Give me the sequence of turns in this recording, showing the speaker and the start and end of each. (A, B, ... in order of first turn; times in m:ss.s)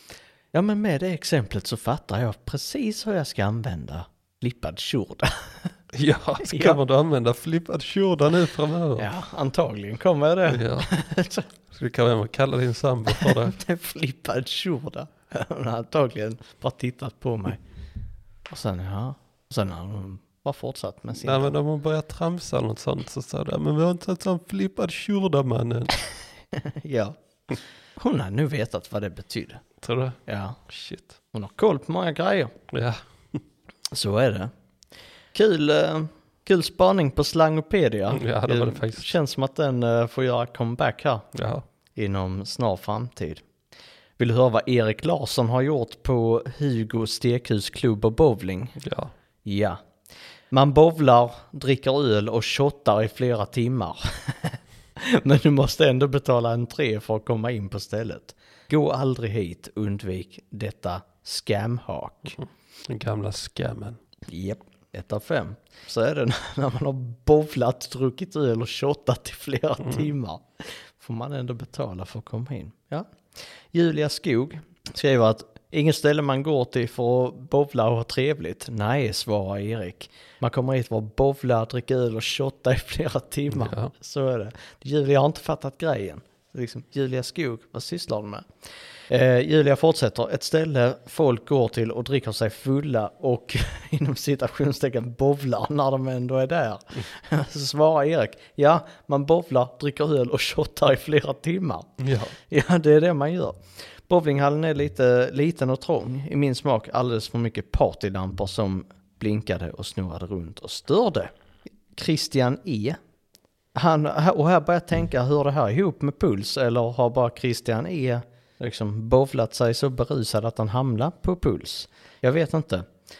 0:00.5-0:05.7 A
0:05.9-0:09.1 B
0:06.4-0:06.8 A
0:09.0-0:11.5 A
0:10.5-0:10.9 B
0:11.7-0:13.6 B
0:13.1-0:17.6 A
0:18.5-0:21.5 A
0:21.2-0:25.9 B
0:26.6-0:29.6 A
0:29.8-0:31.2 B
0:30.3-0:30.6 A
0:31.3-0:32.5 A
0:32.7-0:33.4 B
0:33.9-0:34.5 A
0:35.3-0:41.3 A
0:38.1-0:39.1 B
0:41.3-0:41.6 B
0:42.0-0:43.4 A
0:44.2-0:48.8 A
0:48.8-0:49.1 B
0:49.4-0:49.8 A
0:50.5-1:02.4 A
1:02.3-1:04.0 B
1:04.3-1:28.4 A
1:09.8-1:10.1 B
1:23.5-1:23.9 B
1:29.1-1:42.0 A
1:42.0-1:42.3 B
1:42.5-1:51.3 A
1:51.9-1:53.0 A
1:53.7-2:02.9 A